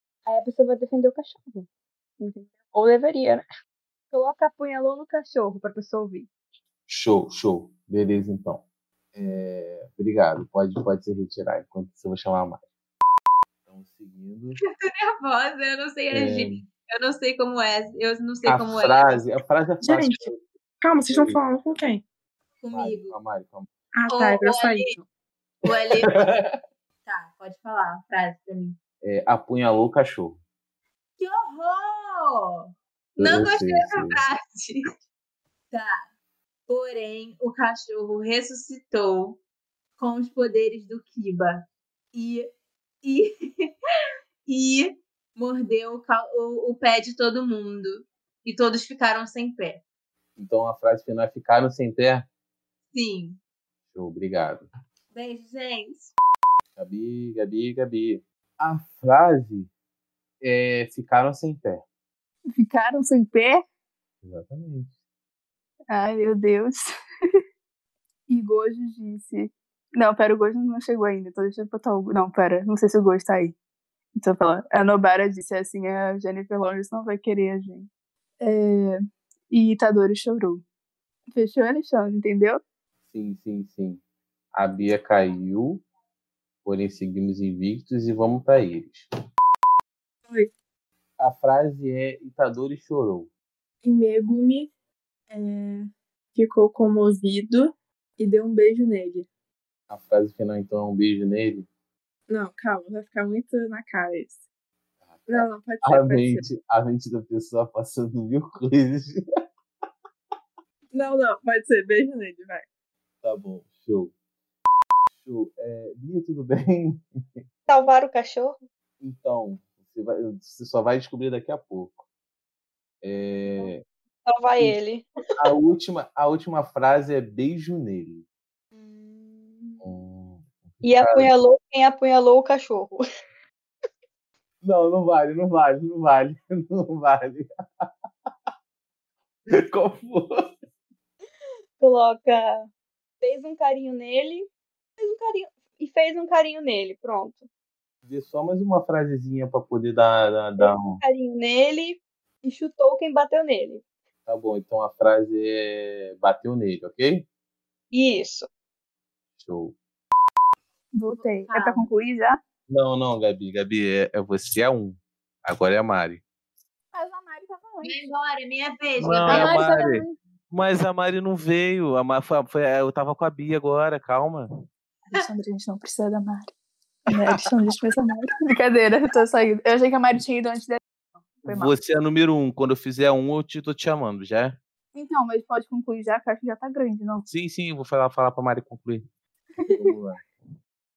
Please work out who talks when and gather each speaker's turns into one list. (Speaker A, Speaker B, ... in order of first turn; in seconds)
Speaker A: 0.3-1.7, 2.2-3.5, 4.1-6.3, 117.7-118.6, 124.3-125.1, 128.7-129.8, 130.8-133.0, 141.8-142.7, 143.2-144.5, 145.0-147.5, 150.6-153.8, 157.9-158.5
Speaker B: 6.9-8.6, 9.2-12.6, 13.7-14.6, 16.1-16.6, 18.4-20.4, 21.1-21.4, 22.7-23.7, 26.1-26.6, 29.0-30.4, 33.2-34.2, 50.4-52.3, 53.9-54.7, 56.8-59.7, 60.4-61.8, 64.2-64.9, 83.1-84.0, 84.5-85.8, 86.7-89.1, 91.2-93.3, 99.9-101.7, 105.0-109.2, 113.2-114.1, 115.1-117.4, 119.0-122.0, 123.0-123.8, 125.4-128.2, 129.8-130.5, 131.0-131.3, 134.6-137.9, 139.5-140.6, 148.1-151.0, 154.3-157.3, 159.4-159.8, 162.7-166.2, 169.0-174.5, 181.5-184.6, 187.3-189.1, 189.7-190.3
Speaker C: 14.8-19.2, 22.6-23.2, 24.1-24.9, 25.6-26.2, 27.1-28.8, 31.2-34.8, 35.7-36.0, 36.7-39.4, 40.0-42.5, 43.0-43.7, 44.5-49.8, 52.9-53.4, 55.1-56.1, 161.2-161.9, 167.8-170.1
Speaker D: 19.8-20.3, 20.8-22.0, 23.9-25.0, 93.8-94.7, 95.3-99.3, 102.3-104.4, 105.3-106.4, 110.9-112.7
Speaker E: 62.6-63.6, 65.9-66.9, 68.3-73.5, 74.2-77.9, 78.4-80.6, 81.3-82.6, 160.9-162.4, 166.9-167.9, 169.3-169.9, 175.1-176.5, 177.1-180.8, 181.4-181.7, 184.9-187.2, 189.6-189.9